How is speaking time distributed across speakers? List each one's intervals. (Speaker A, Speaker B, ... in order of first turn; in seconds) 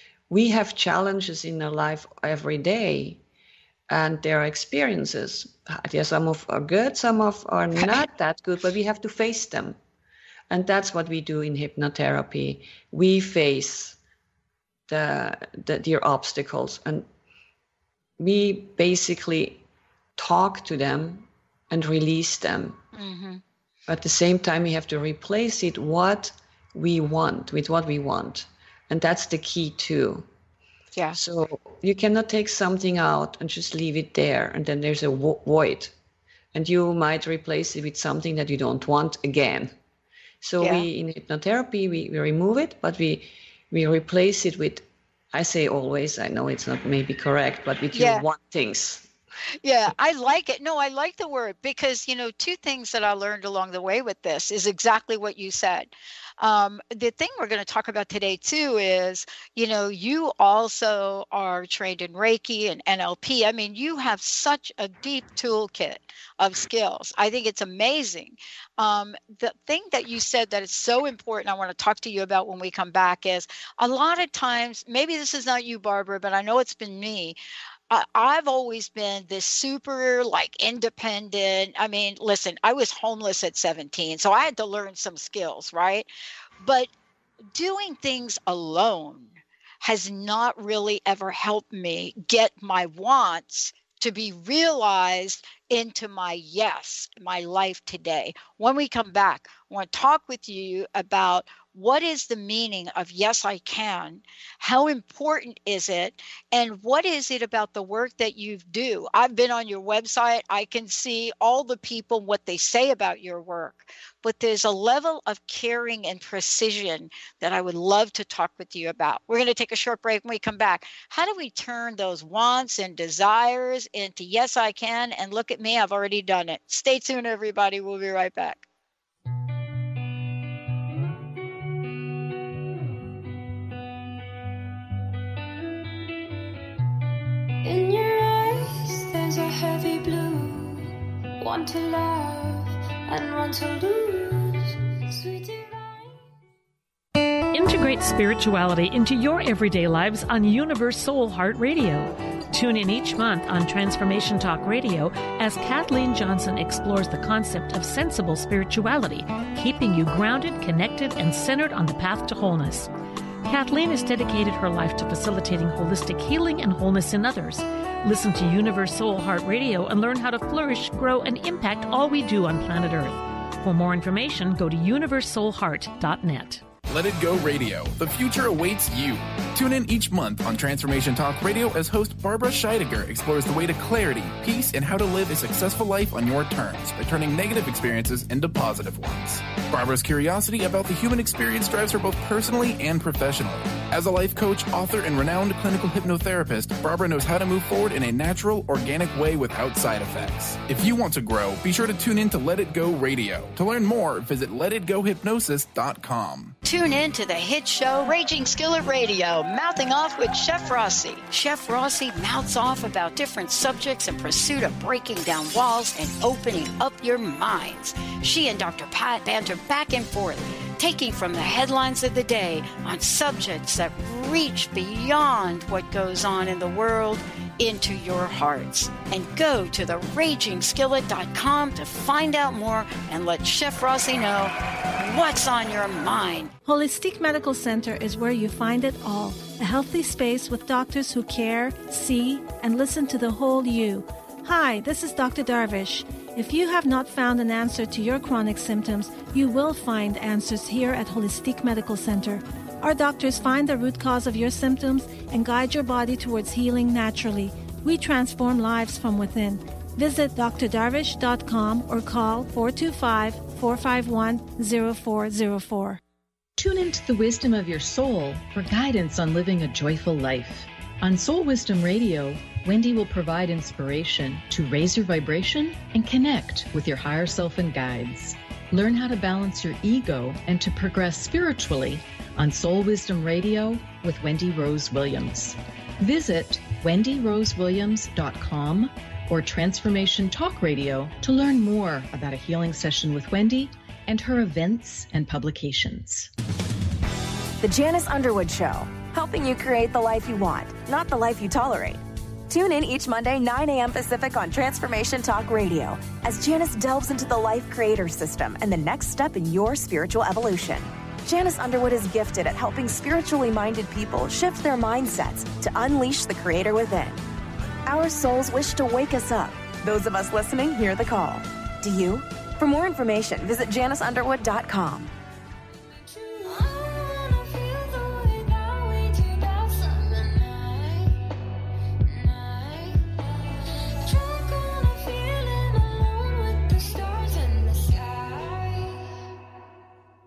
Speaker A: 0.3-3.2, 3.9-9.8, 10.5-14.0, 14.9-17.1, 18.2-19.6, 20.2-22.8, 23.9-30.3, 31.1-35.9, 36.5-39.7, 40.4-49.1
Speaker B: 7.8-8.0, 22.9-23.4, 40.6-40.9, 47.9-48.2, 49.6-77.4, 77.9-86.1, 86.6-86.9, 87.5-128.7, 206.6-236.5
Speaker C: 137.6-140.9, 141.4-146.0, 326.2-331.0, 332.1-332.9, 334.1-338.8
Speaker D: 147.5-162.9, 163.4-176.7
Speaker E: 176.9-206.6
Speaker F: 236.7-266.0
Speaker G: 266.6-296.3
Speaker H: 297.6-317.2, 317.9-325.1